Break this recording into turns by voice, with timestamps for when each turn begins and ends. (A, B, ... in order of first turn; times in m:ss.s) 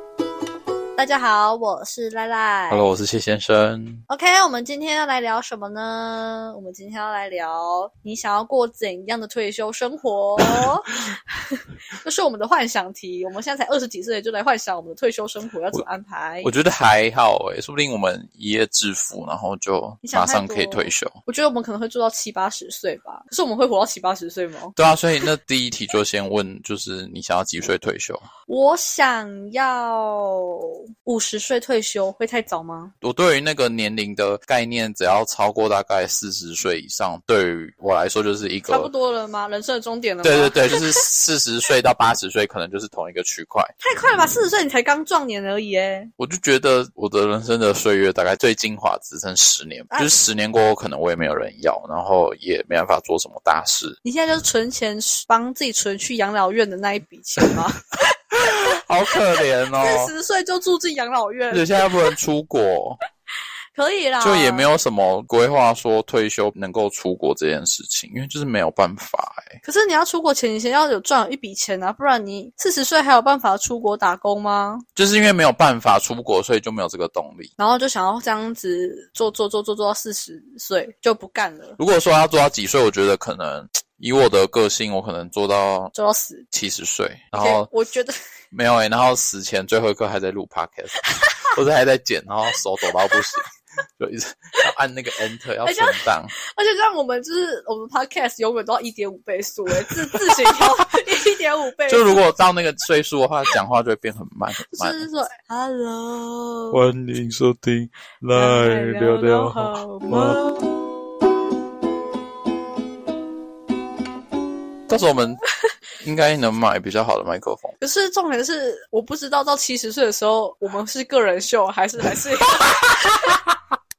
0:01.0-0:02.9 A
0:02.7-0:04.0 B
0:04.1-0:16.5 A
0:16.4-0:21.2 B
0:20.0-0:24.7 A
0:24.8-0:28.2 B
0:28.5-0:32.9 A
0:33.0-0:38.9 B
0:38.7-0:41.0 A
0:40.2-0:43.7 B
0:43.8-0:46.1 A
0:46.2-0:54.0 B
0:54.0-0:57.9 A
0:58.3-1:00.1 B
0:59.7-1:02.1 A
1:01.5-1:03.0 B
1:03.8-1:04.7 A
1:04.2-1:09.6 B
1:09.6-1:14.8 A
1:15.0-1:17.5 B
1:17.6-1:21.8 A
1:21.8-1:25.9 B
1:25.9-1:26.4 A
1:26.5-1:27.7 B
1:27.3-1:28.1 A
1:28.5-1:36.3 B
1:35.6-1:42.2 A
1:39.8-1:40.8 B
1:41.9-1:45.0 B
1:44.7-1:46.8 A
1:46.7-1:50.6 B
1:48.3-1:50.6 A
1:54.9-1:55.4 B
1:56.0-1:57.7 B
1:57.8-2:03.4 A
2:02.6-2:03.6 B